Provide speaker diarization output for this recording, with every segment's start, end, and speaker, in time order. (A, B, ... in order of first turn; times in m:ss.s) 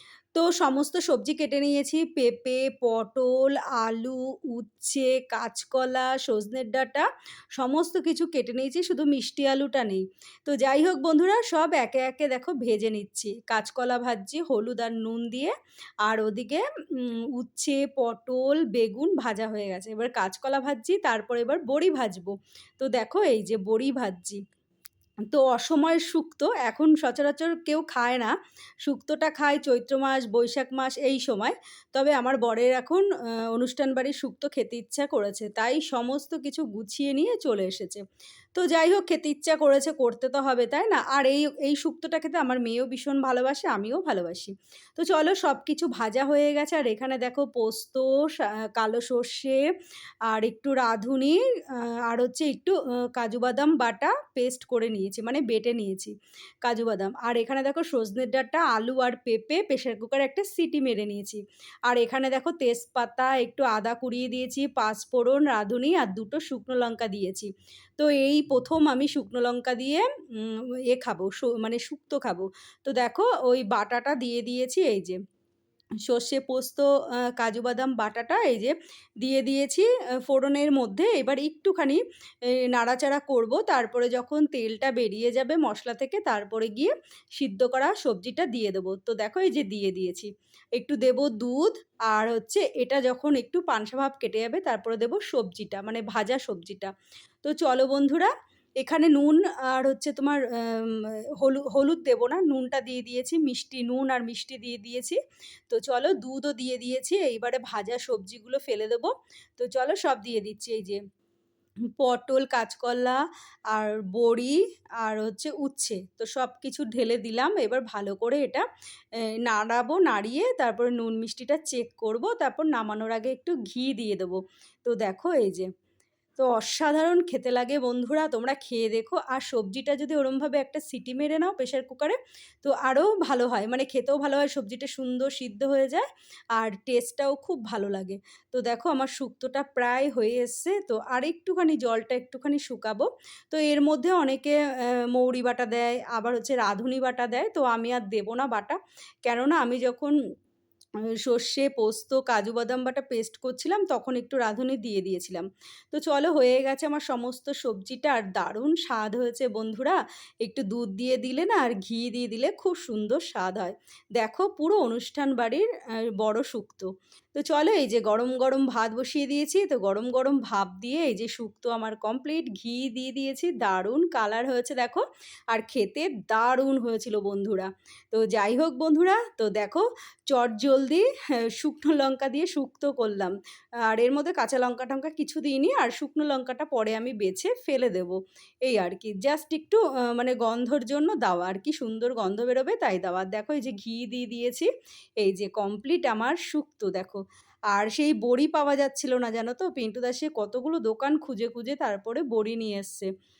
0:00.3-0:07.0 A
0:07.6-0:15.5 A
0:16.0-0:24.4 A
0:25.3-0:28.3 A
0:28.8-0:38.0 A
0:38.5-0:49.6 A
0:50.3-1:15.2 A
1:16.0-1:22.0 A
1:22.7-1:36.9 A
1:37.4-1:38.3 A
1:38.8-1:45.2 A
1:45.7-1:51.0 A
1:52.0-1:53.2 A
1:53.7-1:58.6 A
1:59.4-2:05.7 A
2:06.4-2:30.1 A
2:31.2-2:45.6 A
2:46.2-3:01.0 A
3:01.6-3:03.3 A
3:03.9-3:14.7 A
3:15.2-3:17.2 A
3:17.7-3:23.1 A